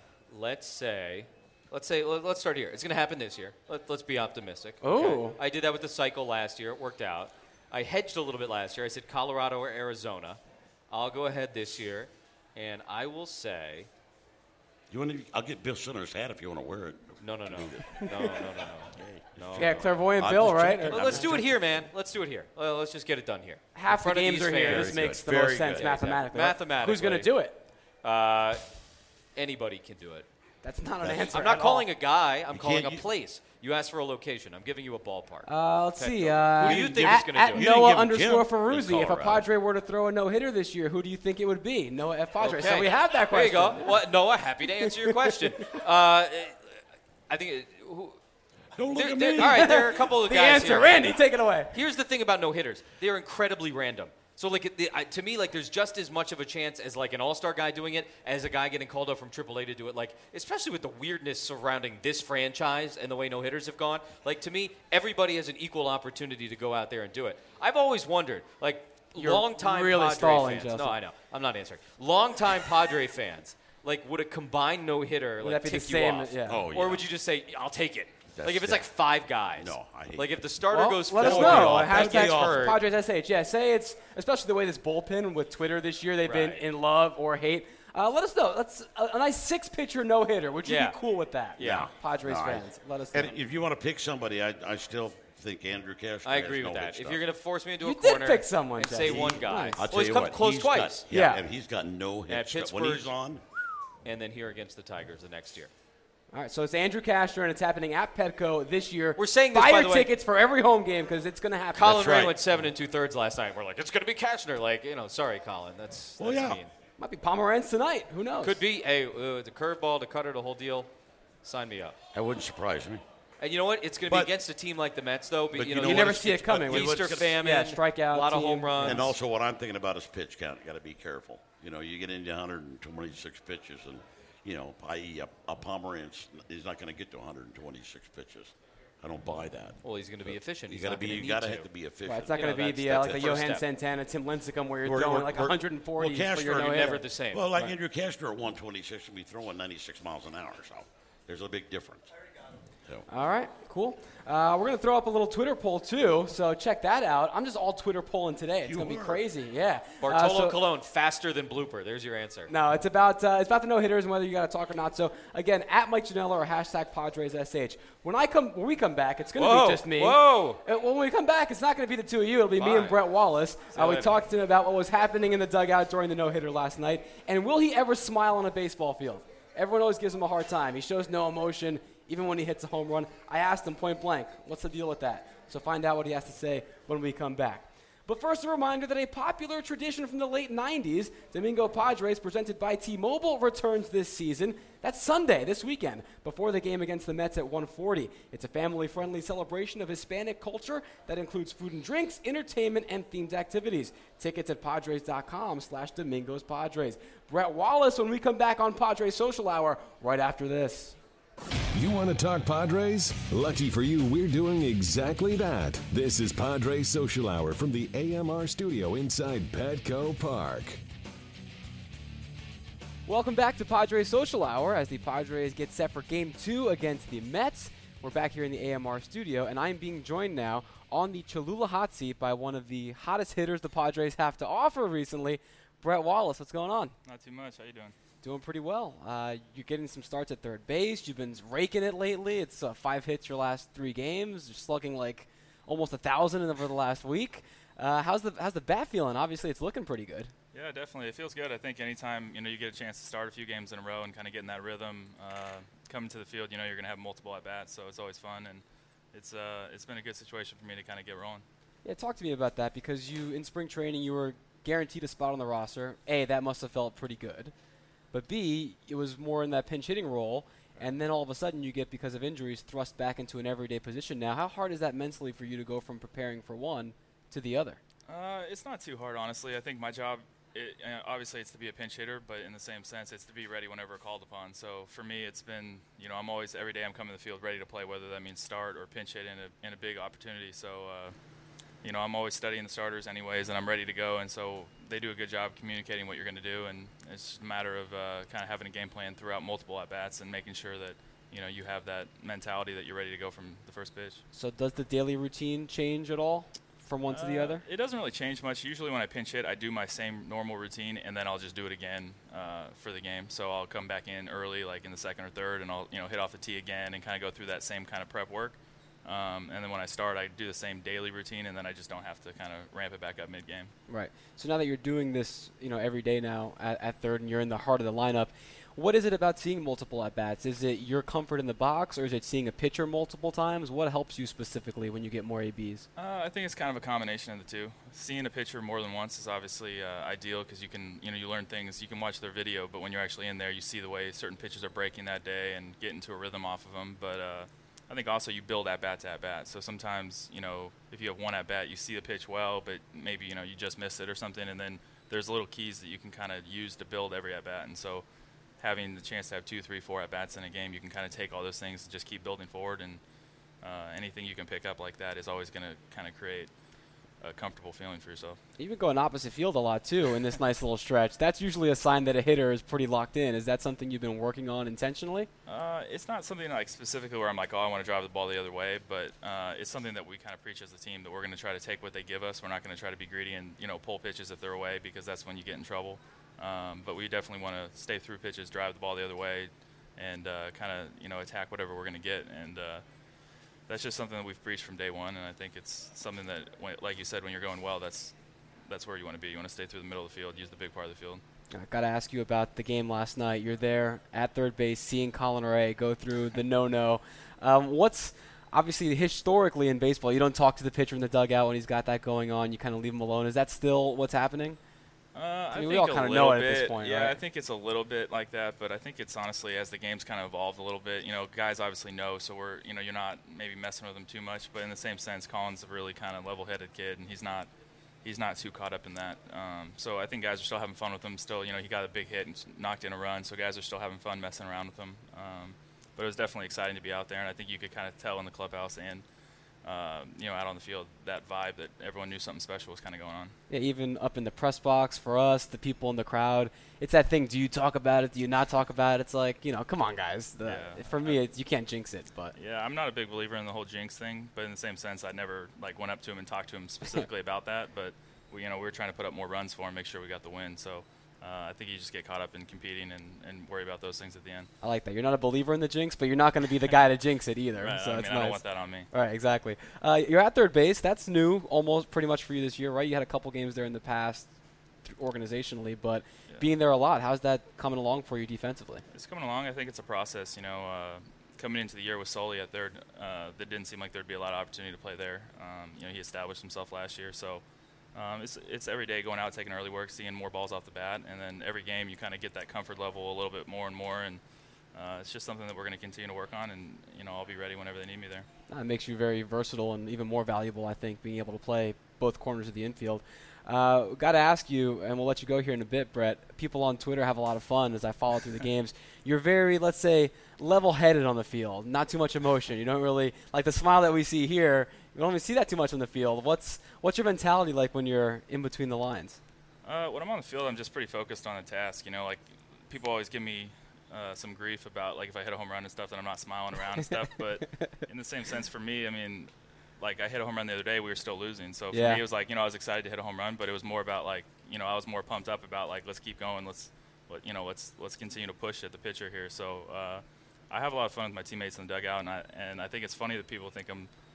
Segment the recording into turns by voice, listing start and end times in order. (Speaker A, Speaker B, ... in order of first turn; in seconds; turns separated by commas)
Speaker A: 0.3-10.4, Speaker B: 4.8-5.4, Speaker A: 10.9-13.9, Speaker C: 14.9-18.3, Speaker A: 17.2-19.9, Speaker C: 18.9-21.5, Speaker B: 19.6-21.3, Speaker A: 20.9-27.3, Speaker B: 23.7-27.6, Speaker C: 24.6-25.9, Speaker A: 28.0-28.6, Speaker A: 29.4-30.3, Speaker B: 30.6-31.9, Speaker C: 31.0-31.4, Speaker A: 31.3-37.7, Speaker C: 32.5-33.0, Speaker B: 35.5-43.9, Speaker C: 36.6-39.5, Speaker A: 42.4-46.6, Speaker B: 44.8-45.8, Speaker A: 47.3-48.2, Speaker C: 48.8-49.8, Speaker A: 48.9-51.1, Speaker B: 49.4-51.7, Speaker A: 51.7-82.8, Speaker B: 69.2-71.0, Speaker B: 75.4-76.6, Speaker C: 76.5-77.0, Speaker C: 78.3-78.9, Speaker C: 79.5-80.5, Speaker B: 80.7-93.4, Speaker C: 81.1-82.8, Speaker A: 86.2-86.6, Speaker A: 90.6-91.0, Speaker A: 91.6-91.9, Speaker C: 91.6-97.2, Speaker A: 96.2-101.0, Speaker B: 97.8-99.8, Speaker C: 99.0-103.4, Speaker B: 101.1-101.4, Speaker A: 102.3-103.1, Speaker A: 104.0-105.7, Speaker B: 106.3-112.1, Speaker A: 109.2-110.1, Speaker A: 111.7-116.7, Speaker C: 111.8-112.4, Speaker C: 116.2-116.6, Speaker B: 117.0-118.6, Speaker A: 118.4-120.9, Speaker A: 121.4-122.0, Speaker C: 122.1-123.0, Speaker A: 123.4-129.1, Speaker C: 125.5-127.4, Speaker B: 125.8-129.1, Speaker C: 128.8-143.4, Speaker A: 139.8-141.7, Speaker B: 142.1-147.0, Speaker A: 142.3-143.6, Speaker C: 144.8-152.1, Speaker A: 146.4-147.5, Speaker B: 153.1-160.6, Speaker C: 158.6-159.2, Speaker A: 160.0-162.5, Speaker B: 162.5-210.9, Speaker A: 169.4-170.6, Speaker A: 172.6-173.0, Speaker A: 173.7-174.2, Speaker D: 211.7-220.8, Speaker B: 223.1-236.9, Speaker E: 237.1-237.9, Speaker B: 238.2-250.3, Speaker E: 250.5-261.4, Speaker B: 261.8-267.5, Speaker B: 268.1-277.8, Speaker E: 278.1-291.1, Speaker E: 291.8-304.2, Speaker B: 304.3-307.6, Speaker E: 307.1-323.7, Speaker B: 323.9-335.9, Speaker E: 336.0-358.0, Speaker E: 358.6-363.0, Speaker E: 363.6-366.5, Speaker E: 367.2-368.4, Speaker B: 368.6-375.3, Speaker E: 375.5-392.8, Speaker E: 393.7-398.1, Speaker E: 398.7-401.2, Speaker B: 401.5-414.6, Speaker E: 415.1-427.5, Speaker B: 415.5-417.2, Speaker E: 428.0-439.0, Speaker E: 439.6-443.3, Speaker B: 443.5-452.3, Speaker E: 450.4-451.2, Speaker E: 452.4-464.5, Speaker B: 464.6-474.3, Speaker E: 467.6-468.9, Speaker B: 474.9-478.8, Speaker E: 478.9-487.4, Speaker E: 487.9-494.2, Speaker E: 494.7-498.3, Speaker B: 498.5-519.2, Speaker E: 519.6-543.9, Speaker B: 531.7-532.0